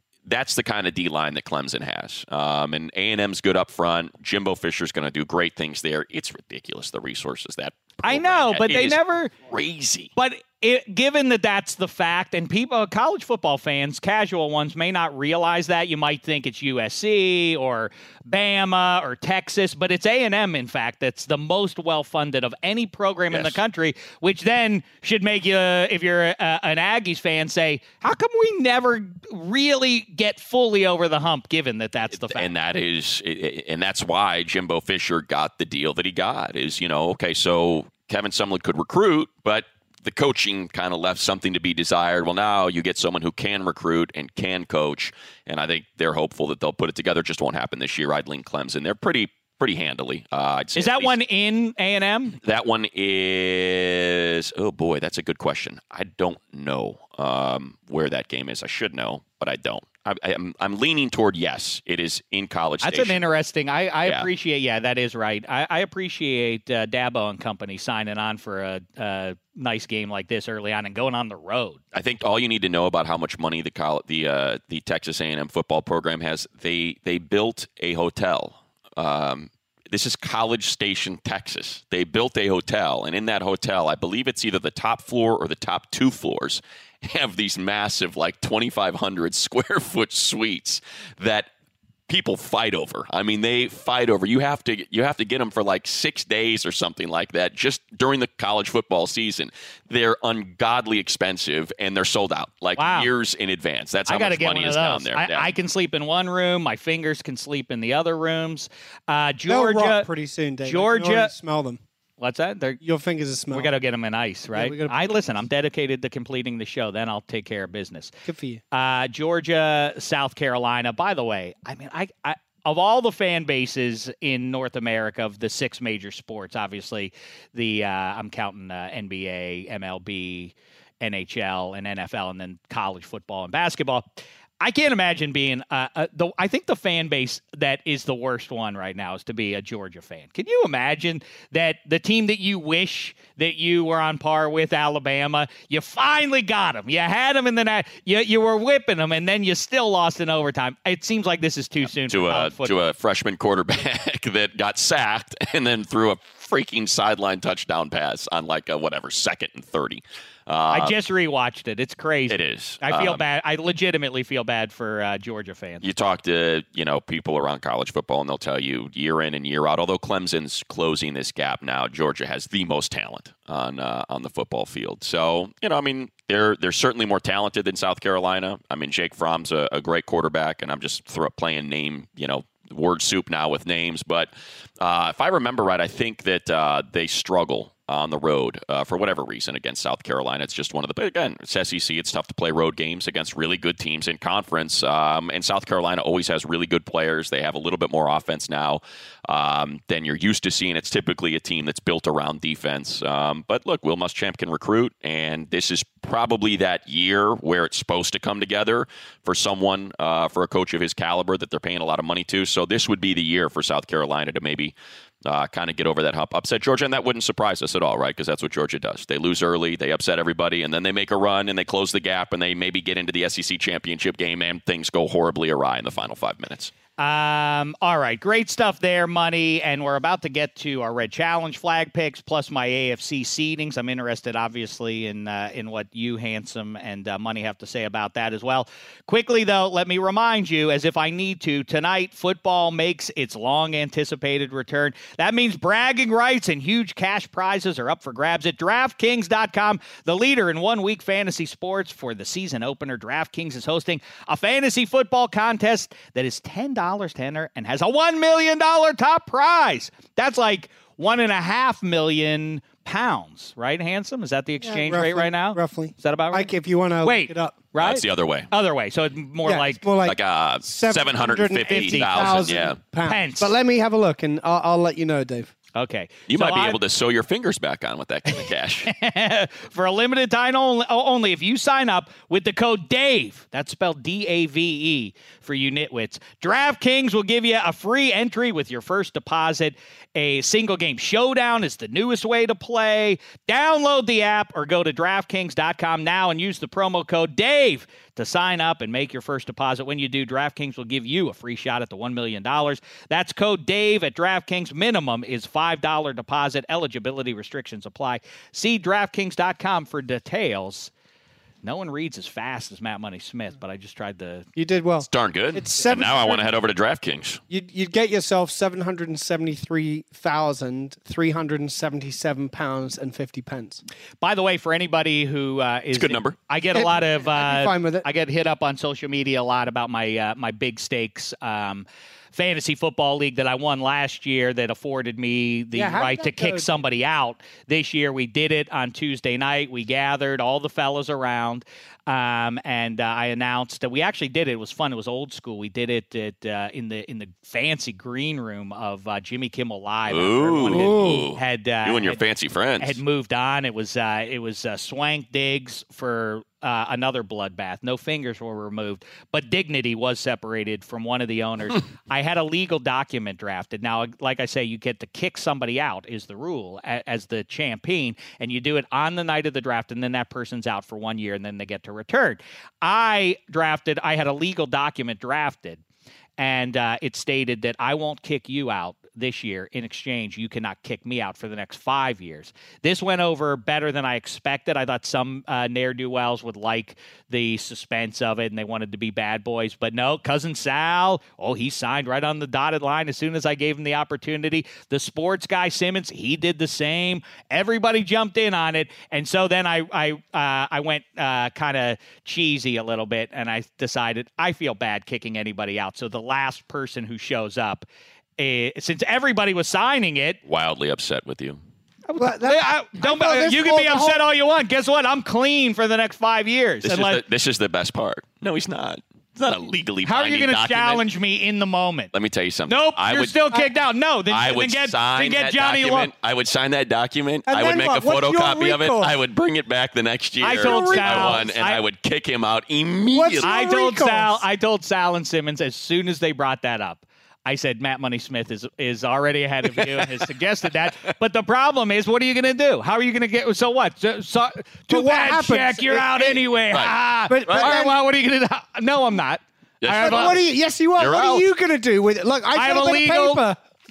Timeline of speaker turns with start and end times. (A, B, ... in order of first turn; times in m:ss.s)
0:00.2-0:10.1 A
0:08.0-0:09.3 B
0:10.2-0:32.5 B
0:23.3-0:23.6 A
0:32.2-0:51.2 A
0:50.8-0:52.4 B
0:52.4-1:03.2 A
1:02.8-1:11.8 B
1:04.0-1:04.3 A
1:11.9-1:31.5 A
1:32.1-1:45.5 A
1:42.8-1:43.1 B
1:44.1-1:50.1 B
1:49.5-1:51.8 C
1:50.6-1:51.3 B
1:52.2-1:52.8 B
1:52.8-1:53.7 C
1:53.5-1:58.1 B
1:54.5-1:55.1 C
1:58.3-1:58.6 C
1:58.7-2:14.1 B
2:14.6-2:32.8 B
2:31.9-2:41.0 A
2:40.7-2:45.8 B
2:42.3-2:43.2 A
2:45.8-3:34.8 A
3:35.3-3:46.7 A
3:47.0-4:26.5 B
4:24.6-4:27.6 C
4:27.0-4:29.8 B
4:27.8-4:28.5 A
4:29.4-4:35.5 C
4:30.0-4:32.8 A
4:31.6-4:33.5 B
4:35.8-4:36.8 B
4:36.3-4:38.9 A
4:38.3-5:10.9 B
5:11.6-5:14.5 B
5:14.6-5:16.6 C
5:15.0-5:17.4 A
5:17.5-5:23.8 C
5:24.2-5:52.2 B
5:25.9-5:26.4 A
5:26.7-5:28.1 C
5:35.7-5:36.7 C
5:50.1-5:53.0 A
5:50.7-5:51.3 C
5:52.8-6:15.8 B
6:16.4-6:47.9 B
6:48.4-6:50.4 B
6:50.4-6:51.6 A
6:52.1-6:57.2 B
6:52.2-6:54.2 C
6:56.8-7:01.0 A
7:00.0-7:02.1 B
7:02.1-7:03.6 A
7:02.7-7:06.1 B
7:04.3-7:13.6 A
7:07.5-7:09.2 C
7:10.4-7:11.8 B
7:10.5-7:11.5 C
7:13.1-7:14.4 C
7:13.4-7:30.4 B
7:19.8-7:20.0 A
7:24.9-7:26.5 C
7:27.3-7:28.0 C
7:27.5-7:27.7 A
7:29.8-7:30.4 A
7:29.9-7:33.6 C
7:31.0-7:31.4 A
7:32.5-7:33.4 B